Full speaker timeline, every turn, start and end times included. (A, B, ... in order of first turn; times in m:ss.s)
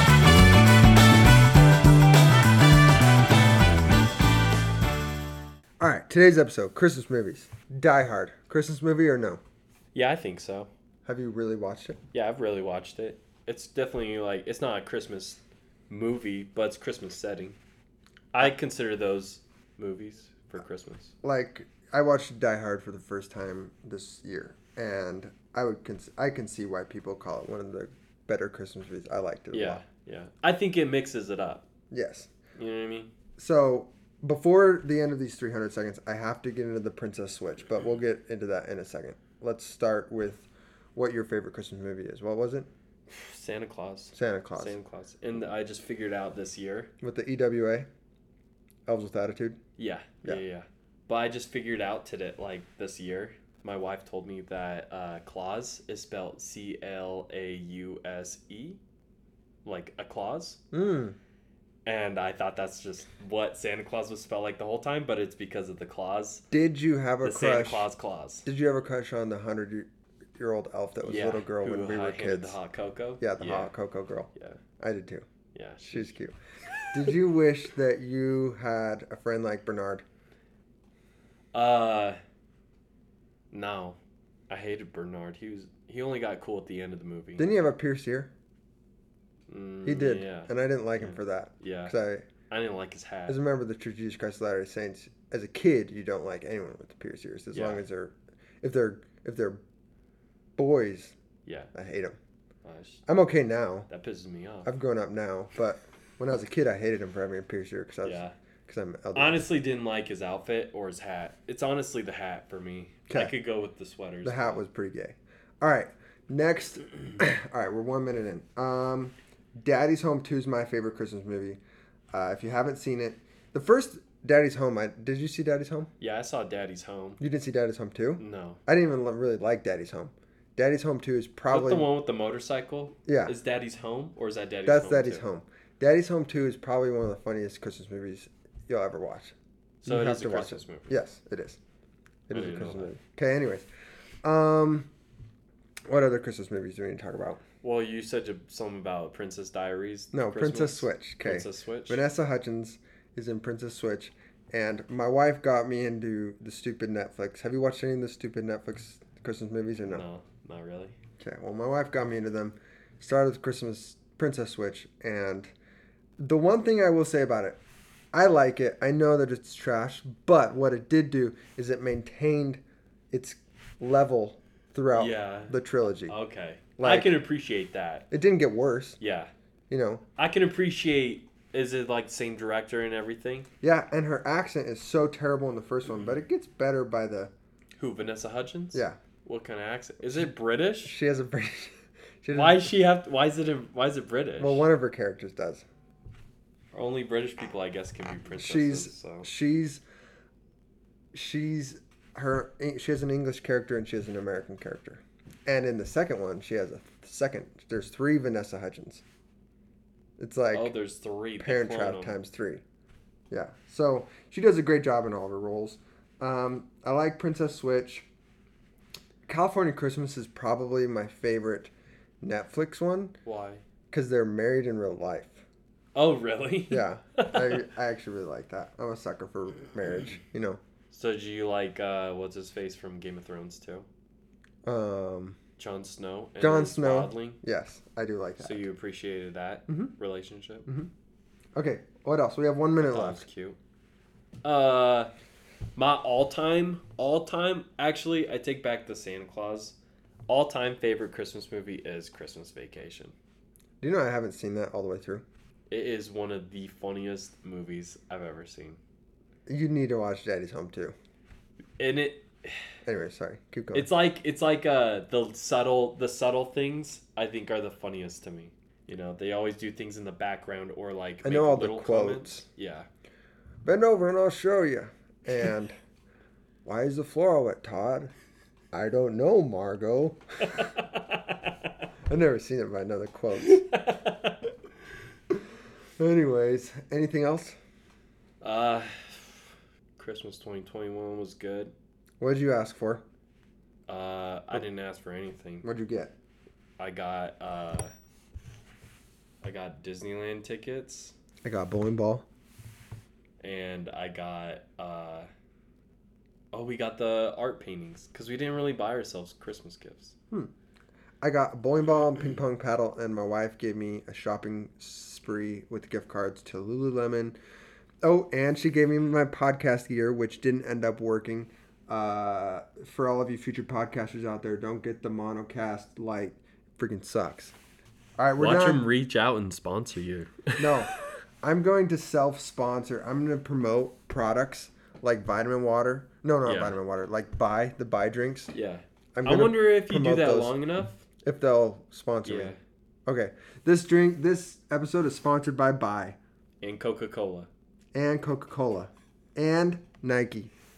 0:05.8-0:09.4 A
0:09.9-0:10.7 B
0:11.0-0:12.0 A
0:12.1-0:17.6 B
0:18.3-0:21.1 B
0:21.2-0:29.8 A
0:29.5-0:31.6 B
0:31.9-0:32.3 A
0:32.6-0:33.1 B
0:33.4-0:42.7 A
0:43.1-0:46.9 B
0:44.1-0:44.7 A
0:47.0-0:47.9 A
0:48.9-0:49.6 A
0:49.8-0:58.8 B
0:59.6-1:00.6 B
1:00.7-1:01.2 A
1:01.8-1:06.4 B
1:06.5-1:07.9 A
1:07.2-1:08.4 B
1:08.4-1:12.6 A
1:11.0-1:13.7 B
1:13.2-1:15.2 A
1:15.5-1:16.2 B
1:15.8-1:16.4 A
1:16.8-1:17.1 B
1:16.9-1:20.0 A
1:21.5-1:22.2 B
1:23.5-1:24.0 B
1:24.5-1:27.5 B
1:27.4-1:28.3 A
1:29.5-1:31.9 B
1:29.8-1:32.3 A
1:32.5-1:33.4 B
1:33.3-1:39.6 A
1:37.5-1:37.8 B
1:40.6-1:41.1 A
1:41.4-1:41.7 B
1:41.7-1:42.2 A
1:42.6-1:43.0 B
1:43.1-1:43.9 A
1:43.9-1:44.7 B
1:44.6-1:49.4 A
1:48.0-1:48.3 B
1:49.1-1:54.6 B
1:54.2-2:01.6 A
2:02.1-2:05.9 A
2:06.0-2:07.2 B
2:07.2-2:11.9 A
2:08.2-2:08.6 B
2:11.5-2:15.2 B
2:13.1-2:13.3 A
2:14.6-2:19.3 A
2:19.8-2:21.0 B
2:19.8-2:21.6 A
2:22.3-2:23.7 A
2:22.3-2:22.9 B
2:24.2-2:24.9 A
2:25.9-2:27.4 A
2:27.6-2:32.0 B
2:30.1-2:40.0 A
2:39.8-2:40.9 B
2:41.2-2:45.5 A
2:46.2-2:47.6 A
2:48.1-2:52.6 A
2:53.1-2:56.2 A
2:54.9-2:58.1 B
2:56.8-2:57.2 A
2:58.1-2:59.0 A
2:59.0-2:59.3 B
2:59.7-3:00.0 A
3:00.2-3:03.5 B
3:03.6-3:07.3 A
3:07.8-3:11.0 B
3:08.7-3:09.0 A
3:10.8-3:12.7 A
3:12.3-3:14.6 B
3:14.4-3:15.6 A
3:16.7-3:19.3 B
3:18.3-3:19.8 A
3:21.1-3:29.0 A
3:30.2-3:30.7 A
3:30.5-3:32.2 B
3:31.4-3:32.6 A
3:33.3-3:38.1 A
3:39.3-3:43.2 A
3:43.2-3:43.6 B
3:43.9-3:45.4 A
3:45.9-3:47.6 B
3:46.7-3:50.6 A
3:50.9-3:53.8 B
3:54.6-3:55.4 A
3:55.6-3:57.4 B
3:56.4-3:58.7 A
3:58.4-4:00.6 B
3:59.7-3:59.9 A
4:01.6-4:03.2 A
4:02.8-4:03.6 B
4:04.4-4:05.1 B
4:05.8-4:09.8 B
4:10.3-4:13.1 B
4:13.8-4:15.2 A
4:15.7-4:18.8 B
4:19.5-4:20.9 A
4:21.8-4:22.7 B
4:22.8-4:23.9 A
4:23.7-4:32.9 B
4:31.2-4:32.4 A
4:33.6-4:35.8 A
4:36.6-4:38.1 A
4:38.7-4:40.8 A
4:40.6-4:41.4 B
4:42.1-4:43.9 A
4:43.3-4:44.4 B
4:46.0-4:47.6 A
4:48.4-4:51.7 B
4:52.2-4:53.0 A
4:53.9-4:55.7 B
4:55.6-4:56.1 A
4:56.8-4:57.9 B
4:59.4-5:01.1 B
5:01.4-5:02.2 A
5:03.4-5:05.3 B
5:06.5-5:10.1 B
5:11.2-5:17.4 A
5:18.0-5:27.5 A
5:28.2-5:28.8 A
5:28.4-5:31.1 B
5:30.6-5:38.5 A
5:36.4-5:36.8 B
5:38.5-5:41.0 B
5:39.1-5:40.6 A
5:41.2-5:42.5 A
5:42.2-5:42.6 B
5:43.1-5:46.2 A
5:46.6-5:47.5 B
5:47.9-5:50.5 A